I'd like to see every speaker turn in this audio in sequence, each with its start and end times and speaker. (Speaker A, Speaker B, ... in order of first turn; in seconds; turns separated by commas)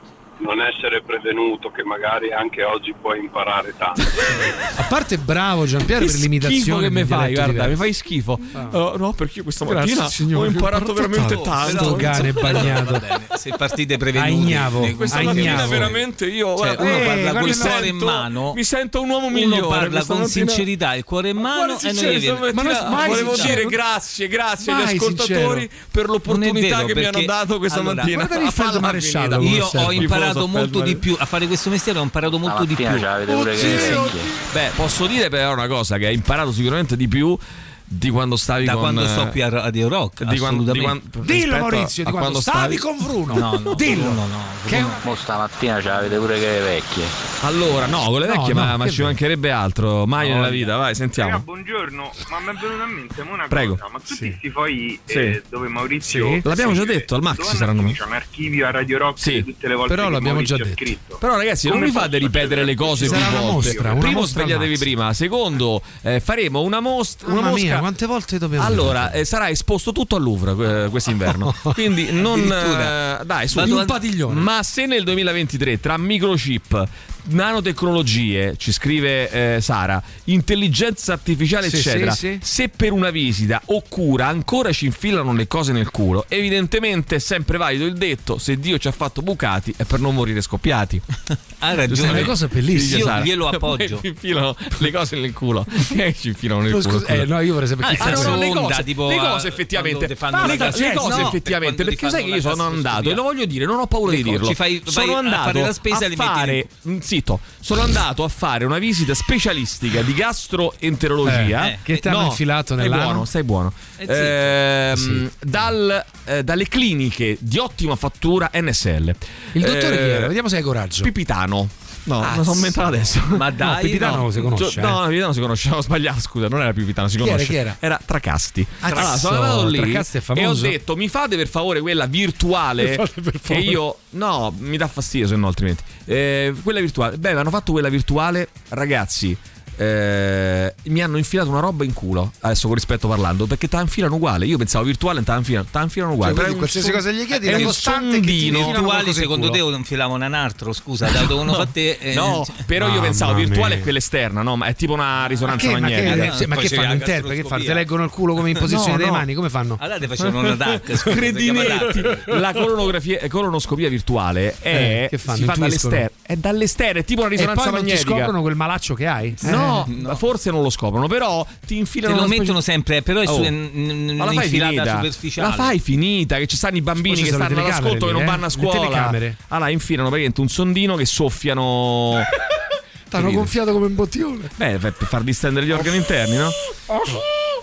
Speaker A: 0.4-4.3, Speaker B: 4.7-7.8, Speaker C: 6.0-12.8, Speaker B: 9.7-13.0, Speaker D: 11.3-16.0, Speaker B: 14.2-15.9, Speaker C: 14.9-20.6, Speaker D: 16.6-18.6, Speaker B: 16.8-17.9, Speaker D: 19.3-23.6, Speaker B: 21.4-23.8, Speaker C: 21.9-31.0, Speaker B: 24.6-25.7, Speaker D: 26.3-28.1, Speaker B: 28.1-30.1, Speaker D: 29.4-34.1, Speaker E: 32.3-34.3, Speaker B: 33.3-34.3, Speaker C: 33.6-39.4, Speaker D: 38.6-41.0, Speaker C: 40.2-42.9, Speaker B: 41.2-45.0, Speaker D: 43.3-45.1, Speaker E: 45.0-47.1, Speaker C: 47.4-51.5, Speaker B: 48.2-49.2, Speaker D: 50.2-50.7, Speaker F: 51.2-63.9, Speaker C: 53.5-53.8, Speaker B: 54.1-54.4, Speaker C: 55.1-55.4, Speaker B: 56.0-56.5, Speaker C: 56.4-58.0, Speaker C: 59.2-59.5, Speaker B: 59.9-60.9, Speaker C: 61.2-67.9, Speaker A: 61.9-63.1, Speaker B: 63.0-64.9, Speaker B: 67.2-69.2, Speaker C: 68.6-91.0, Speaker B: 71.3-71.8, Speaker D: 72.2-73.0, Speaker D: 73.5-74.0, Speaker B: 73.6-74.5, Speaker B: 81.6-82.4, Speaker D: 91.6-94.0, Speaker C: 91.9-97.3, Speaker B: 92.0-93.2, Speaker B: 96.7-98.5, Speaker D: 97.8-103.2, Speaker C: 98.0-120.3, Speaker B: 100.3-101.4, Speaker D: 104.1-106.7, Speaker B: 111.2-113.3, Speaker D: 114.0-114.6, Speaker B: 114.9-115.2, Speaker B: 119.5-121.1, Speaker C: 121.0-148.8, Speaker B: 122.2-125.0, Speaker D: 123.3-124.3, Speaker B: 127.2-127.8, Speaker B: 128.8-130.8, Speaker B: 132.8-133.8, Speaker B: 146.2-149.6, Speaker D: 147.5-147.8, Speaker D: 148.4-152.6, Speaker C: 151.5-156.3, Speaker B: 152.8-153.9, Speaker B: 155.5-159.8, Speaker D: 156.0-157.8, Speaker C: 158.6-159.3, Speaker D: 159.8-162.3, Speaker C: 160.2-168.3, Speaker B: 164.7-166.1, Speaker B: 167.4-169.9, Speaker C: 169.4-172.6, Speaker D: 169.9-170.2, Speaker D: 172.1-175.7, Speaker C: 173.3-173.5, Speaker C: 174.2-182.3, Speaker B: 177.0-179.4, Speaker B: 183.1-184.5, Speaker C: 183.1-183.5, Speaker C: 184.6-186.6, Speaker B: 186.9-187.2